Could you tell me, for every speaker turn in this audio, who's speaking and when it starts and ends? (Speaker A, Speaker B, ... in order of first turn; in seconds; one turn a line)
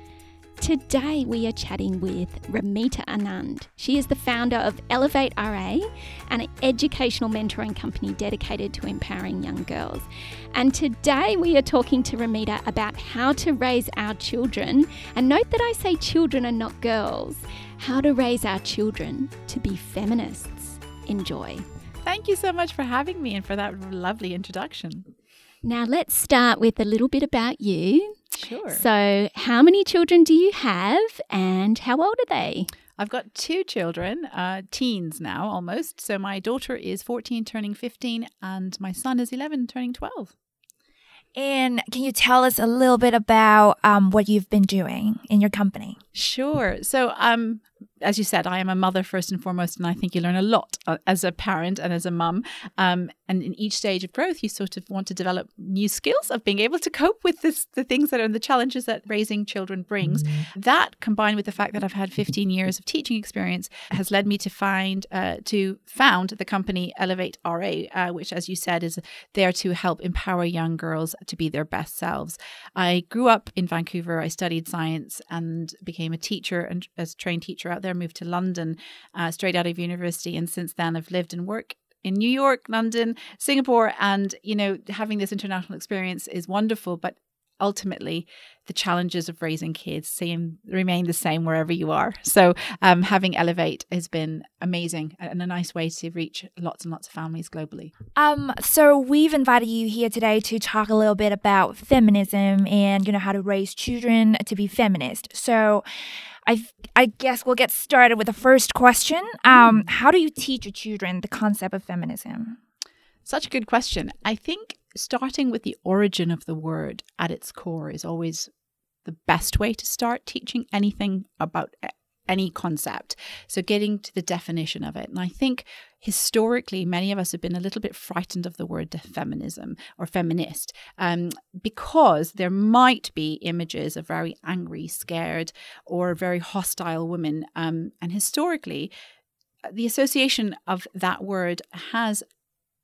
Speaker A: 0.6-21.6
Speaker B: 22.0-25.1
Speaker A: 25.6-28.2
Speaker B: 28.3-28.8
Speaker A: 28.7-32.7
Speaker B: 33.0-40.3
Speaker C: 41.3-46.0
Speaker B: 46.1-97.9
Speaker C: 98.2-112.6
Speaker B: 109.5-109.9
Speaker B: 113.2-118.5
Speaker B: 119.0-138.9
Speaker B: 139.6-142.2